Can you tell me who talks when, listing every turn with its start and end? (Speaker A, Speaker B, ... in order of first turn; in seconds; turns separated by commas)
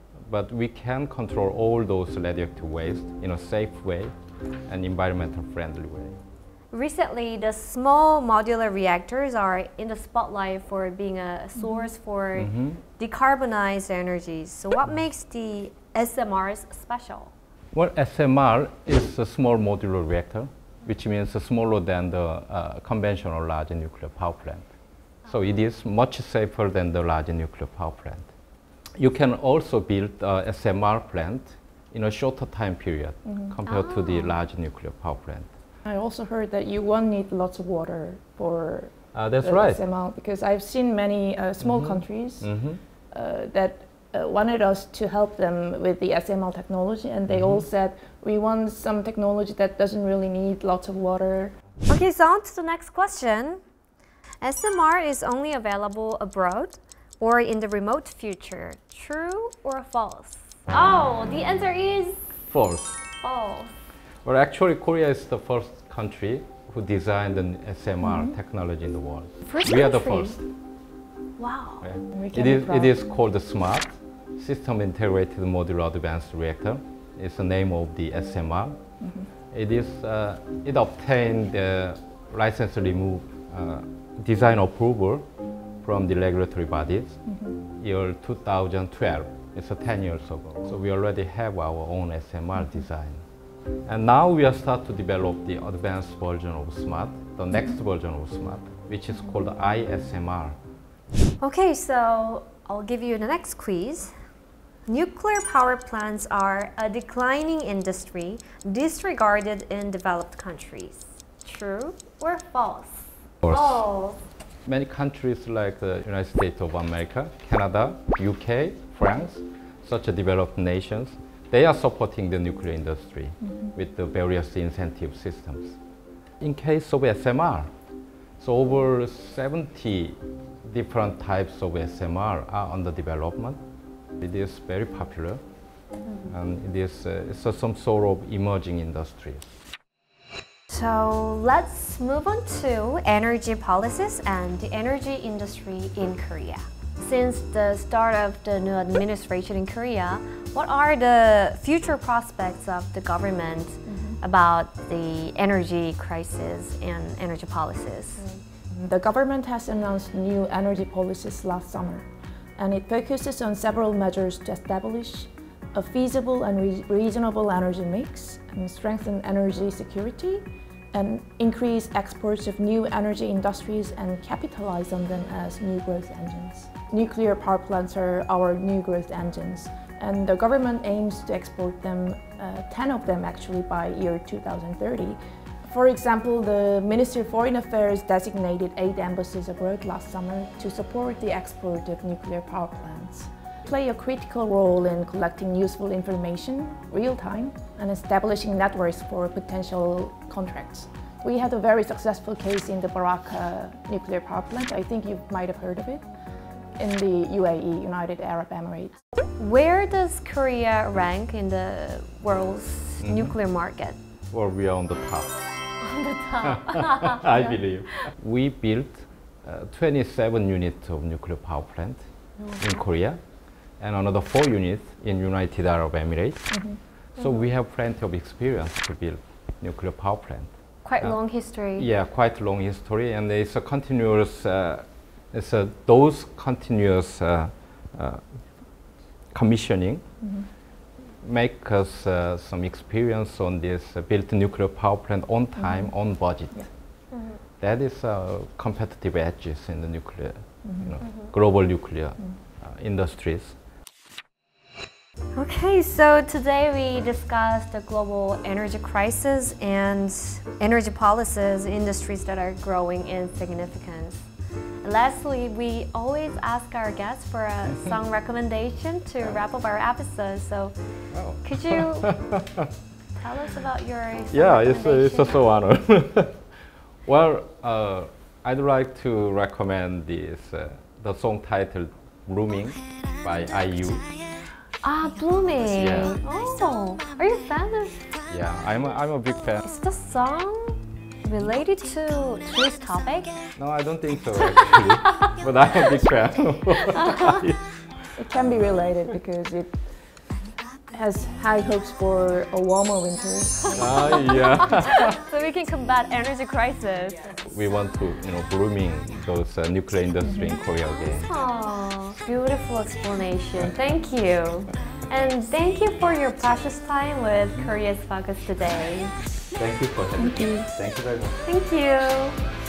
Speaker A: 0.3-4.1, Speaker A: 4.7-6.2, Speaker B: 6.7-17.3, Speaker C: 11.6-11.8, Speaker A: 12.3-12.8, Speaker A: 17.7-24.6, Speaker A: 25.2-28.3, Speaker A: 29.0-35.5, Speaker C: 33.2-33.5, Speaker B: 33.6-34.4, Speaker C: 35.8-42.5, Speaker A: 39.1-39.8, Speaker A: 41.6-42.8, Speaker C: 43.1-51.5, Speaker A: 47.3-47.6, Speaker B: 51.9-53.6, Speaker B: 54.4-62.2, Speaker A: 62.5-63.0, Speaker B: 63.2-63.7, Speaker A: 64.2-70.5, Speaker C: 68.0-68.3, Speaker B: 69.4-70.4, Speaker B: 71.4-71.9, Speaker A: 71.8-78.8, Speaker C: 72.1-72.9, Speaker C: 79.0-79.3, Speaker A: 79.5-85.2, Speaker A: 85.8-93.2, Speaker C: 87.3-87.6, Speaker A: 93.8-100.6, Speaker B: 101.4-104.1, Speaker B: 104.9-114.2, Speaker A: 113.4-113.8, Speaker A: 114.6-125.8, Speaker C: 123.5-123.7, Speaker A: 126.4-127.7, Speaker A: 128.4-133.6, Speaker A: 134.2-135.4, Speaker B: 136.0-136.3, Speaker A: 136.2-139.5, Speaker B: 140.7-158.3, Speaker C: 153.8-154.2, Speaker C: 158.2-162.1, Speaker C: 162.6-206.0, Speaker C: 206.8-208.9, Speaker B: 209.4-214.0, Speaker A: 213.0-213.4, Speaker A: 214.3-215.4, Speaker B: 215.8-217.6, Speaker A: 216.4-222.0, Speaker A: 222.6-223.2, Speaker A: 223.8-226.5, Speaker C: 226.5-226.8, Speaker A: 227.2-231.2, Speaker B: 230.8-231.9, Speaker A: 231.8-238.2, Speaker A: 239.3-240.0, Speaker C: 240.2-240.5, Speaker A: 241.2-246.7, Speaker C: 245.6-246.7, Speaker B: 247.1-247.4, Speaker A: 247.6-253.6, Speaker C: 250.6-251.0, Speaker B: 251.0-251.3, Speaker B: 255.3-264.3, Speaker B: 264.8-270.8, Speaker A: 271.1-272.7, Speaker B: 271.4-272.1, Speaker B: 273.2-275.4, Speaker A: 274.3-276.4, Speaker A: 277.1-284.1, Speaker B: 284.8-288.1, Speaker A: 285.8-286.2, Speaker A: 288.2-289.6, Speaker B: 289.6-293.4, Speaker A: 293.6-297.8, Speaker B: 296.9-297.4, Speaker C: 298.1-299.8, Speaker C: 300.9-304.1, Speaker B: 303.7-307.4, Speaker A: 303.7-305.1, Speaker A: 307.4-311.3, Speaker C: 310.2-310.6, Speaker B: 311.0-319.1, Speaker A: 319.5-321.4, Speaker C: 320.2-320.7, Speaker B: 321.4-322.4